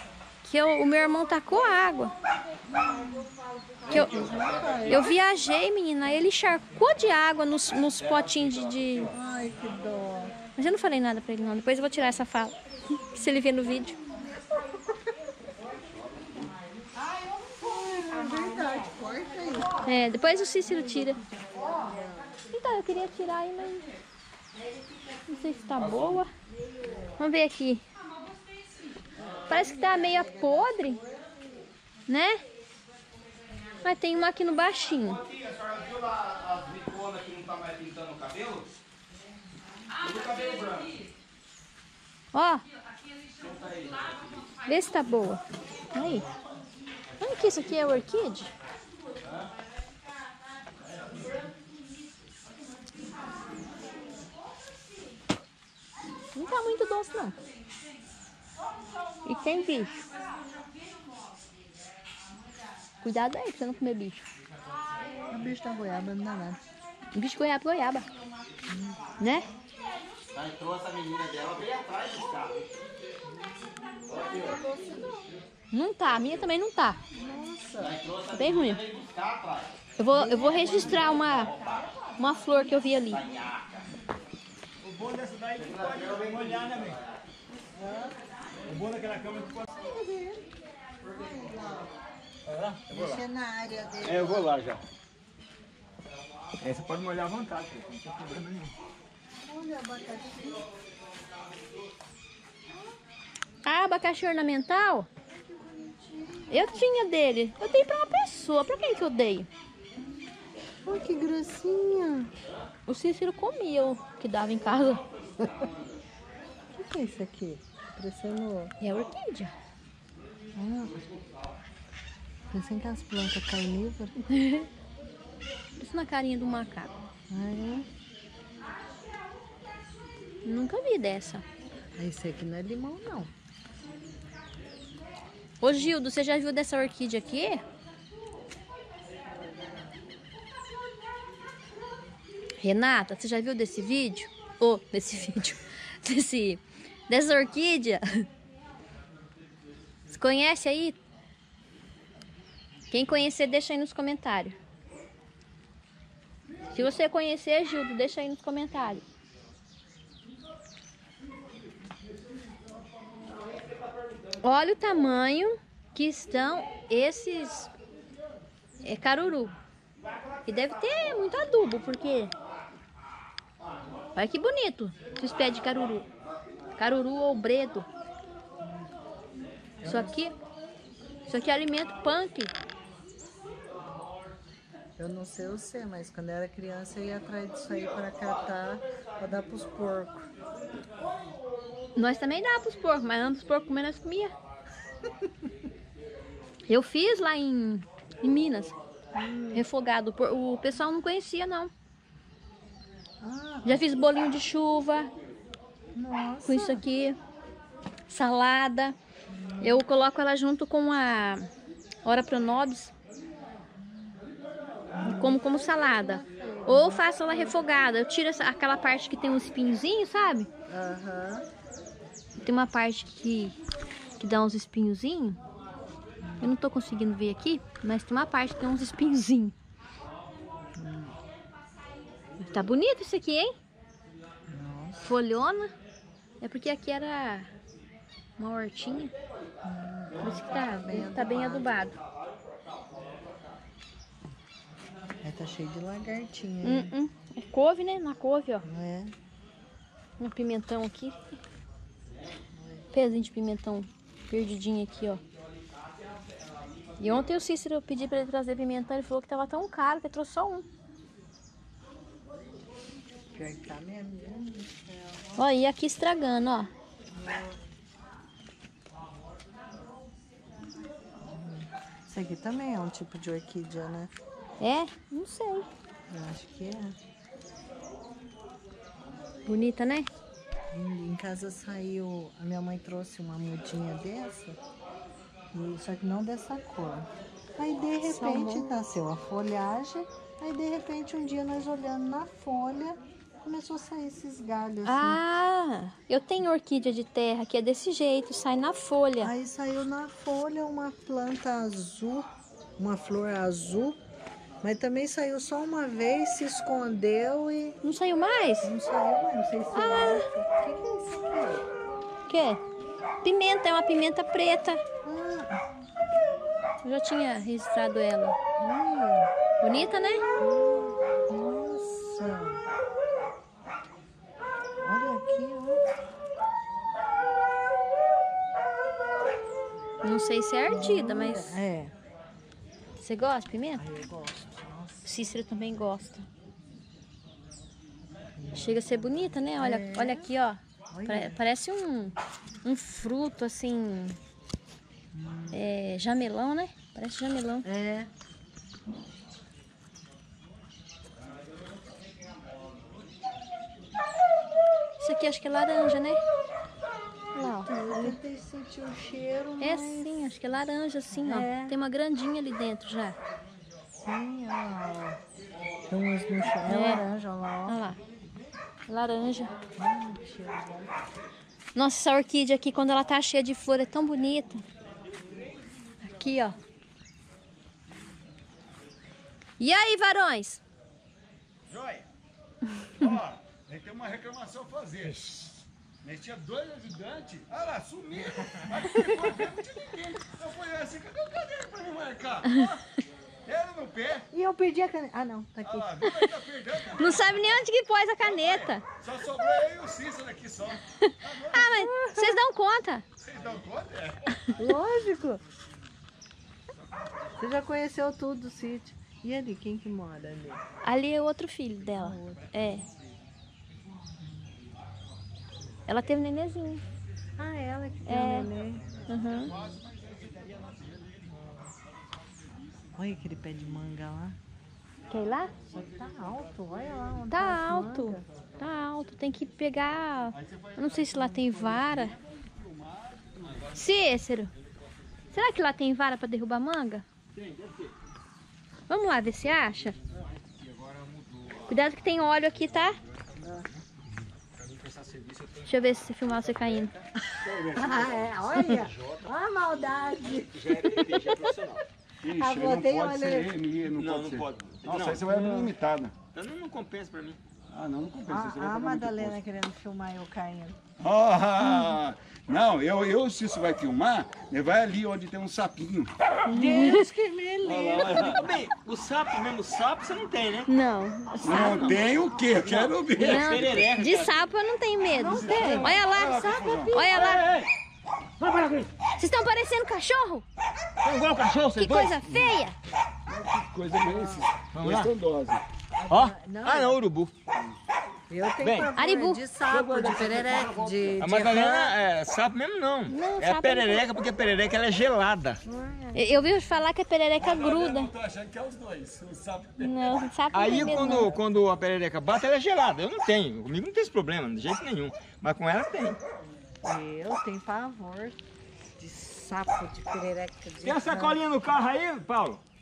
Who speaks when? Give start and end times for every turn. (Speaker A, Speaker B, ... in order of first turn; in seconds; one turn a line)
Speaker A: 0.4-2.1
Speaker B: 2.7-3.3
Speaker B: 3.9-5.1
Speaker A: 3.9-4.2
Speaker A: 4.9-9.1
Speaker B: 9.1-10.3
Speaker A: 10.6-12.6
Speaker A: 13.1-14.0
Speaker B: 17.6-19.7
Speaker A: 19.9-21.2
Speaker B: 21.6-22.3
Speaker A: 22.5-23.9
Speaker A: 25.3-26.3
Speaker A: 27.2-27.8
Speaker B: 29.3-31.4
Speaker A: 29.5-31.0
Speaker A: 32.1-32.4
Speaker A: 33.8-35.2
Speaker C: 35.2-38.7
Speaker C: 40.1-40.7
Speaker A: 42.3-42.6
Speaker C: 43.5-44.4
Speaker A: 44.7-45.4
Speaker A: 45.9-46.2
Speaker A: 47.2-48.5
Speaker A: 56.4-57.4
Speaker A: 59.2-60.0
Speaker A: 63.0-64.2
Speaker B: 65.3-66.6
Speaker A: 67.1-68.1
Speaker B: 68.7-69.0
Speaker A: 69.2-69.5
Speaker C: 70.3-72.6
Speaker B: 74.3-75.3
Speaker A: 75.7-77.0
Speaker B: 77.2-78.0
Speaker C: 77.9-79.7
Speaker A: 78.3-78.8
Speaker A: 80.0-81.5
Speaker B: 80.2-80.8
Speaker C: 80.5-81.7
Speaker A: 82.2-83.2
Speaker C: 83.3-83.6
Speaker D: 84.8-87.0
Speaker C: 85.6-87.0
Speaker B: 87.7-88.2
Speaker D: 88.7-89.7
Speaker B: 89.8-90.4
Speaker B: 91.0-91.9
Speaker D: 92.5-93.2
Speaker B: 92.9-94.5
Speaker D: 94.0-94.8
Speaker D: 96.6-98.7
Speaker B: 99.4-100.6
Speaker A: 103.7-105.1
Speaker B: 105.4-106.9
Speaker A: 106.5-109.5
Speaker B: 110.9-112.3
Speaker A: 112.9-115.0
Speaker B: 116.8-118.7
Speaker A: 118.8-119.5
Speaker B: 120.5-120.9
Speaker B: 122.5-124.2
Speaker A: 124.3-124.7
Speaker A: 125.8-126.9
Speaker B: 127.3-127.9
Speaker A: 130.4-131.4
Speaker B: 132.0-133.3
Speaker A: 135.6-137.6
Speaker A: 142.6-148.2
Speaker A: 150.1-151.0
Speaker A: 152.9-154.6
Speaker A: 156.7-159.0
Speaker A: 164.4-167.7
Speaker A: 168.8-169.5
Speaker A: 170.5-172.3
Speaker A: 174.2-176.1
Speaker A: 176.8-177.9
Speaker B: 179.8-180.2
Speaker A: 179.8-180.3
Speaker A: 181.3-182.5
Speaker B: 185.0-190.2
Speaker A: 192.0-194.3
Speaker A: 196.7-198.8
Speaker B: 199.2-199.7
Speaker A: 199.5-201.7
Speaker B: 203.2-203.8
Speaker A: 203.7-205.1
Speaker B: 205.9-206.8
Speaker A: 206.4-207.2
Speaker A: 208.1-209.0
Speaker B: 209.3-209.8
Speaker A: 209.6-211.5
Speaker A: 212.1-212.9
Speaker B: 214.9-217.2
Speaker A: 215.0-220.5
Speaker B: 220.7-221.5
Speaker A: 222.4-223.6
Speaker A: 224.2-225.4
Speaker B: 226.2-226.6
Speaker A: 226.4-229.6
Speaker B: 230.8-231.2
Speaker A: 232.4-233.6
Speaker B: 234.5-235.1
Speaker A: 235.0-235.7
Speaker A: 236.4-237.5
Speaker A: 238.4-239.1
Speaker B: 239.6-241.9
Speaker A: 240.2-242.0
Speaker B: 245.2-246.9
Speaker A: 246.6-248.6
Speaker B: 248.7-249.1
Speaker A: 250.2-251.4
Speaker B: 252.5-252.9
Speaker A: 252.9-255.2
Speaker A: 257.0-260.6
Speaker B: 263.4-265.4
Speaker A: 265.4-266.7
Speaker B: 267.1-267.6
Speaker B: 271.2-274.1
Speaker A: 274.6-275.7
Speaker B: 276.1-277.0
Speaker A: 279.5-280.1
Speaker B: 280.7-284.6
Speaker B: 285.5-295.2
Speaker A: 288.1-288.6
Speaker A: 294.9-299.3
Speaker B: 299.2-304.0
Speaker B: 304.6-307.8
Speaker A: 307.8-308.7
Speaker B: 308.6-311.6
Speaker A: 309.8-310.3
Speaker A: 312.3-312.6
Speaker A: 313.2-314.8
Speaker B: 315.0-315.6
Speaker A: 316.8-318.4
Speaker B: 318.6-319.3
Speaker A: 319.6-320.2
Speaker B: 320.4-322.6
Speaker B: 324.8-325.8
Speaker A: 330.0-331.6
Speaker B: 330.7-331.9
Speaker A: 333.0-333.8
Speaker B: 333.8-335.2
Speaker A: 335.1-336.3
Speaker B: 338.4-340.3
Speaker A: 338.5-344.2
Speaker B: 340.9-341.4
Speaker B: 345.1-345.6
Speaker A: 345.5-347.7
Speaker B: 347.6-348.1
Speaker A: 355.0-356.2
Speaker A: 357.3-358.2
Speaker B: 357.4-360.2
Speaker A: 359.6-363.2
Speaker B: 361.1-361.7
Speaker B: 364.0-365.2
Speaker B: 365.9-367.8
Speaker A: 366.7-367.0
Speaker A: 367.7-368.0
Speaker A: 368.9-369.5
Speaker B: 369.8-370.9
Speaker A: 371.8-374.6
Speaker A: 376.0-376.6
Speaker A: 379.6-380.6
Speaker D: 381.7-382.1
Speaker E: 383.0-385.3
Speaker E: 386.0-392.8
Speaker D: 388.4-388.8
Speaker E: 393.4-394.3
Speaker B: 394.3-396.1
Speaker E: 395.6-397.6
Speaker A: 397.0-398.8
Speaker E: 398.2-401.6
Speaker A: 401.0-403.1
Speaker B: 401.5-402.3
Speaker E: 403.2-404.4
Speaker B: 404.6-405.4
Speaker B: 407.4-410.6
Speaker A: 410.8-412.9
Speaker B: 412.0-412.8
Speaker A: 415.9-416.8
Speaker B: 417.4-419.1
Speaker A: 418.1-418.5
Speaker A: 419.1-419.5
Speaker E: 419.4-421.2
Speaker B: 423.0-424.4
Speaker A: 425.1-425.5
Speaker B: 425.7-428.2
Speaker A: 427.3-432.1
Speaker E: 430.3-433.8
Speaker A: 433.7-434.5
Speaker A: 435.3-437.1
Speaker D: 437.4-437.9
Speaker A: 438.9-440.0
Speaker D: 440.4-441.8
Speaker A: 441.7-443.0
Speaker D: 442.7-443.8
Speaker D: 444.6-446.9
Speaker A: 445.7-446.9
Speaker E: 447.4-448.4
Speaker B: 447.8-451.0
Speaker D: 448.6-449.3
Speaker D: 450.2-451.8
Speaker E: 452.2-456.1
Speaker B: 452.4-453.6
Speaker D: 453.9-455.7
Speaker D: 456.3-457.4
Speaker E: 457.7-459.4
Speaker B: 458.3-460.8
Speaker E: 461.0-466.3
Speaker A: 461.6-462.0
Speaker B: 466.5-468.3
Speaker A: 466.5-467.1
Speaker E: 467.6-468.5
Speaker D: 468.1-470.7
Speaker A: 470.7-472.1
Speaker E: 471.4-474.0
Speaker D: 471.5-474.5
Speaker A: 473.2-477.4
Speaker B: 475.1-476.0
Speaker E: 475.2-477.6
Speaker B: 476.7-477.0
Speaker D: 477.2-477.4
Speaker D: 478.4-478.9
Speaker A: 479.2-480.4
Speaker D: 481.0-482.2
Speaker A: 481.8-482.8
Speaker E: 482.3-482.6
Speaker E: 483.3-485.6
Speaker B: 484.1-484.5
Speaker D: 484.7-485.1
Speaker B: 486.0-487.0
Speaker D: 486.1-487.3
Speaker B: 488.3-491.9
Speaker D: 488.6-488.9
Speaker A: 489.0-489.4
Speaker E: 489.7-491.3
Speaker D: 491.2-495.6
Speaker A: 493.1-494.1
Speaker B: 495.6-496.4
Speaker A: 496.1-498.1
Speaker E: 497.4-500.3
Speaker A: 499.8-501.3
Speaker D: 500.5-506.2
Speaker B: 506.8-508.4
Speaker B: 509.0-511.4
Speaker D: 510.8-512.6